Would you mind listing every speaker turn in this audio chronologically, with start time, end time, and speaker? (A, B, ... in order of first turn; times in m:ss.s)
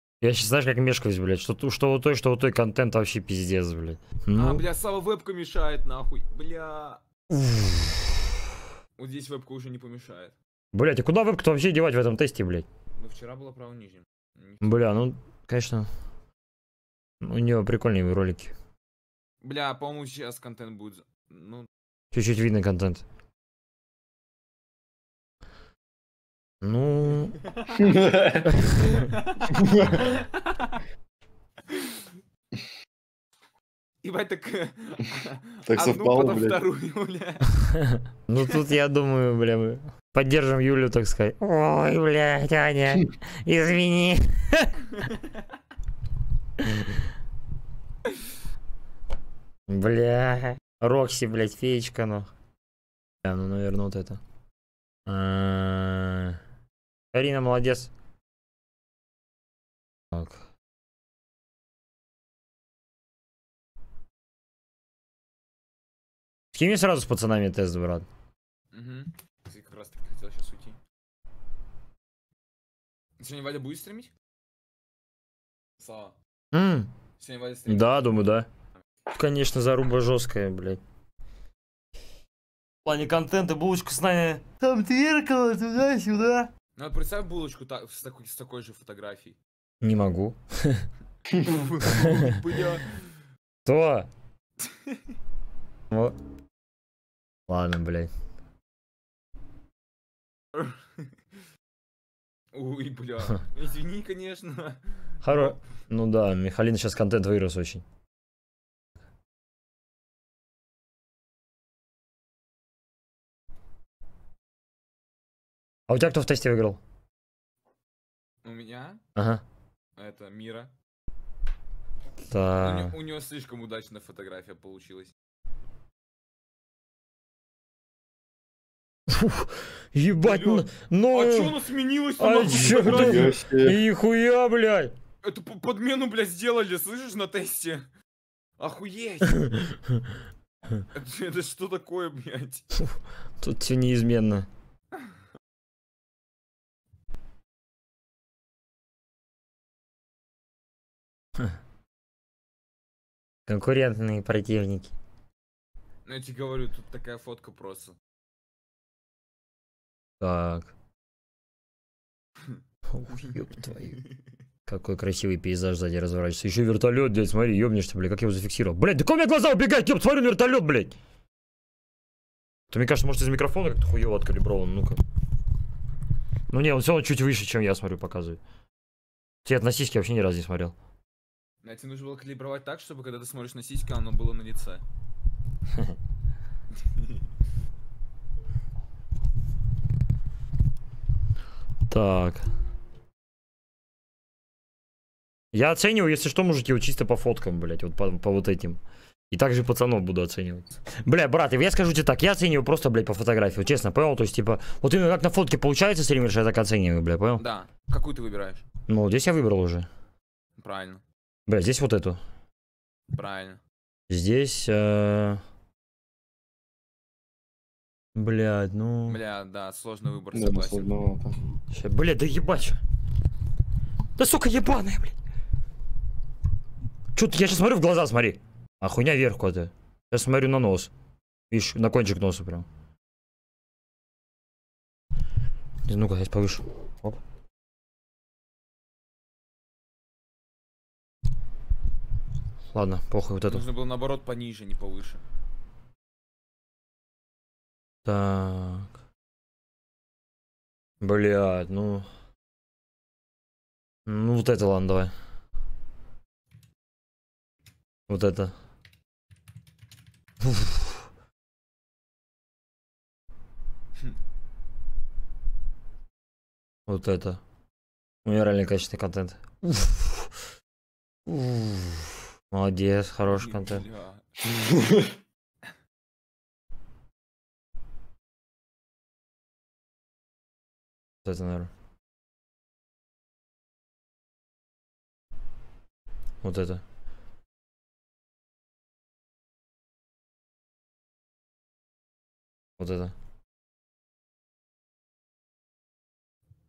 0:00.2-0:04.6 A
0:04.4-0:07.0 B
0:07.3-0:08.2 A
0:09.0-0:10.4 B
0:10.7-0:12.7 A
0:13.0-0:14.8 B
0:14.6-0:15.9 A
0:17.2-0:18.5 A
0:19.4-0:21.7 B
0:22.1-0:23.0 A
0:26.6-0:27.4 A
0:27.6-0:28.0 B
0:27.8-0:28.5 C
0:28.5-0:28.9 A
0:28.9-0:30.8 B
0:29.5-0:30.1 C
0:31.7-0:32.1 B
0:34.0-0:37.7 B
0:35.7-0:36.6 C
0:37.8-0:44.8 A
0:49.7-0:52.3 A
0:53.2-0:54.2 A
0:55.1-0:56.4 A
0:57.1-0:57.9 A
1:00.1-1:00.4 A
1:06.5-1:08.1 A
1:08.7-1:10.8 B
1:13.2-1:14.1 B
1:15.8-1:16.2 B
1:16.5-1:16.9 A
1:17.2-1:18.1 B
1:17.7-1:18.5 A
1:19.1-1:20.8 A
1:22.8-1:26.5 A
1:26.8-1:29.4 B
1:29.8-1:30.9 A
1:31.4-1:33.3 B
1:31.9-1:32.4 A
1:33.7-1:34.1 A
1:34.6-1:35.0 B
1:35.9-1:36.2 A
1:37.5-1:38.1 A
1:40.5-1:41.1 B
1:42.5-1:45.6 B
1:45.2-1:47.8 A
1:55.9-1:56.8 A
1:58.4-1:59.0 B
1:59.2-1:59.4 A
2:00.0-2:00.7 B
2:02.3-2:03.0 A
2:02.6-2:05.1 B
2:09.1-2:11.6 A
2:10.2-2:13.4 B
2:12.2-2:14.9 A
2:12.6-2:13.8 C
2:15.2-2:17.9 B
2:18.6-2:19.5 B
2:20.9-2:22.7 B
2:23.4-2:24.5 A
2:33.5-2:34.9 A
2:36.1-2:38.0 B
2:40.2-2:40.7 A
2:42.9-2:44.0 A
2:44.7-2:51.0 A
2:52.7-2:55.0 A
2:56.5-2:58.4 A
2:59.4-3:00.8 A
3:01.6-3:04.8 B
3:11.9-3:12.5 A
3:15.5-3:18.8 A
3:19.3-3:27.4 A
3:27.4-3:28.7 B
3:28.9-3:29.9 A
3:30.6-3:31.0 B
3:31.5-3:32.2 A
3:33.1-3:33.6 B
3:34.1-3:35.4 A
3:38.2-3:39.2 A
3:39.1-3:40.9 B
3:40.3-3:41.4 C
3:41.7-3:42.8 A
3:44.2-3:45.2 A
3:47.2-3:50.9 A
3:51.5-3:52.7 A
3:55.9-3:57.2 A
4:02.7-4:03.6 A
4:03.5-4:05.2 B
4:08.0-4:08.9 A
4:11.0-4:12.1 A
4:14.1-4:15.1 A
4:18.1-4:18.6 A
4:20.4-4:20.9 A
4:26.9-4:27.4 A
4:28.2-4:30.4 A
4:31.3-4:33.8 A
4:33.3-4:34.3 B
4:34.7-4:35.1 C
4:41.2-4:41.7 A
4:46.4-4:46.8 A
4:52.8-4:53.2 A